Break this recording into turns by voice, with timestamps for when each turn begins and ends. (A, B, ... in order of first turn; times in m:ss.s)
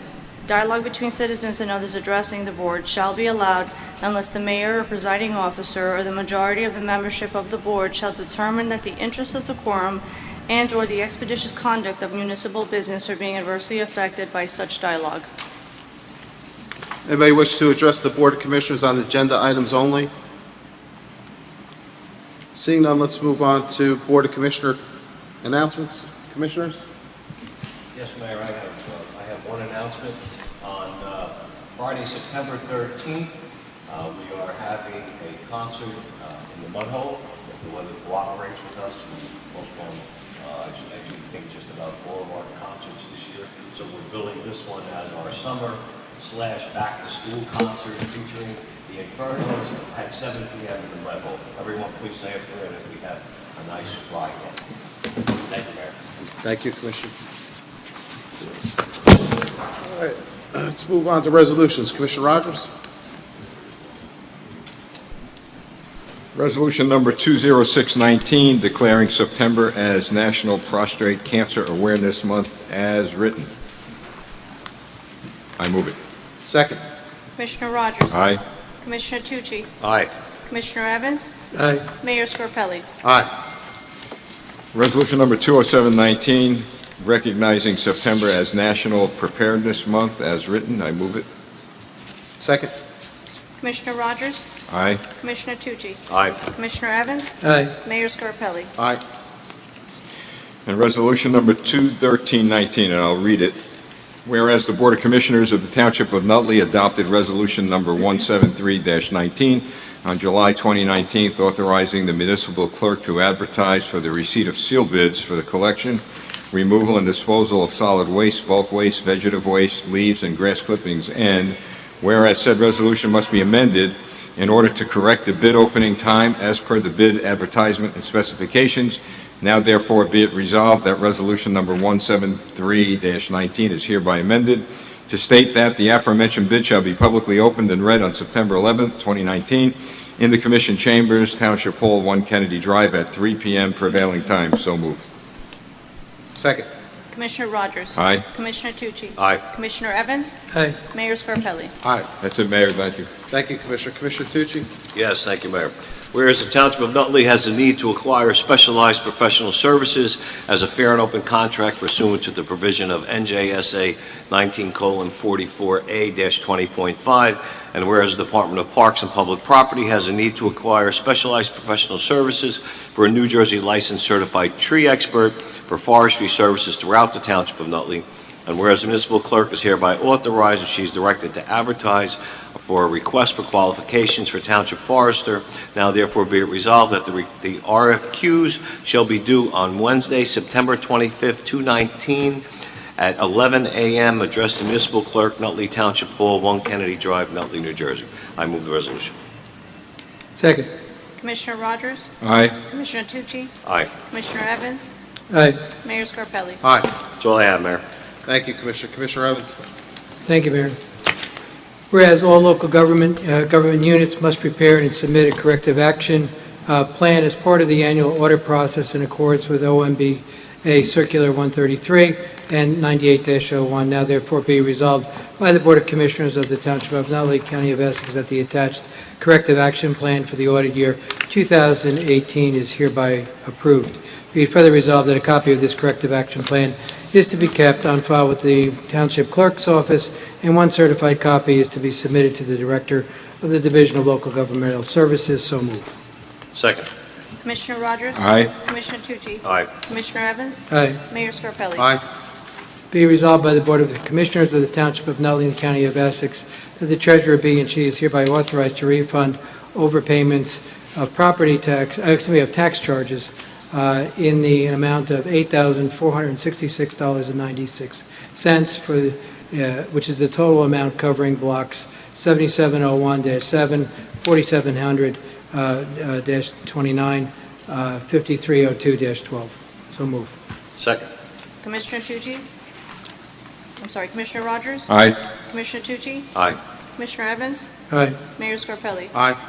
0:00.4-0:15.2 A
0:17.1-0:20.1 B
0:22.5-0:24.8 B
0:25.4-0:26.8 B
0:27.9-0:33.3 C
0:33.9-0:54.6 C
0:55.5-0:56.0 C
0:56.4-0:57.1 B
0:58.4-0:58.8 B
0:59.8-1:02.7 B
1:06.4-1:13.5 D
1:15.6-1:16.0 D
1:16.4-1:16.8 B
1:17.4-1:18.1 A
1:18.1-1:18.4 D
1:18.8-1:19.7 A
1:19.8-1:20.1 C
1:20.5-1:21.3 A
1:21.5-1:21.9 E
1:22.0-1:22.8 A
1:23.0-1:23.3 B
1:24.7-1:31.3 D
1:32.4-1:32.7 B
1:33.6-1:34.4 A
1:34.7-1:35.0 D
1:35.2-1:38.7 A
1:36.1-1:36.4 C
1:37.4-1:37.7 E
1:40.7-1:43.6 D
1:44.2-2:25.1 D
2:26.4-2:26.7 B
2:27.1-2:30.4 A
2:28.0-2:28.2 D
2:29.2-2:29.4 C
2:30.5-2:30.8 E
2:30.9-2:31.7 A
2:31.8-2:32.1 B
2:32.2-2:33.1 D
2:33.3-2:34.7 B
2:35.0-3:12.4 C
3:13.0-3:19.1 C
3:20.4-3:20.7 E
3:21.2-3:22.1 A
3:22.2-3:22.6 D
3:22.7-3:23.5 A
3:23.6-3:23.9 C
3:24.1-3:24.9 A
3:25.3-3:25.6 E
3:25.8-3:26.6 A
3:26.6-3:26.9 B
3:27.2-3:27.8 C
3:28.2-3:29.5 B
3:30.2-3:30.8 E
3:31.9-4:05.9 E
4:06.6-4:06.9 C
4:07.4-4:11.9 A
4:08.2-4:08.5 D
4:09.4-4:09.7 C
4:10.7-4:11.0 E
4:11.8-4:12.0 B
4:12.9-4:40.3 E
4:40.8-4:41.1 C
4:41.6-4:42.4 A
4:43.8-4:44.9 A
4:44.9-4:45.2 D
4:45.5-4:46.3 A
4:47.0-4:47.7 A
4:47.9-4:48.2 E
4:48.4-4:49.1 A
4:49.1-4:49.4 B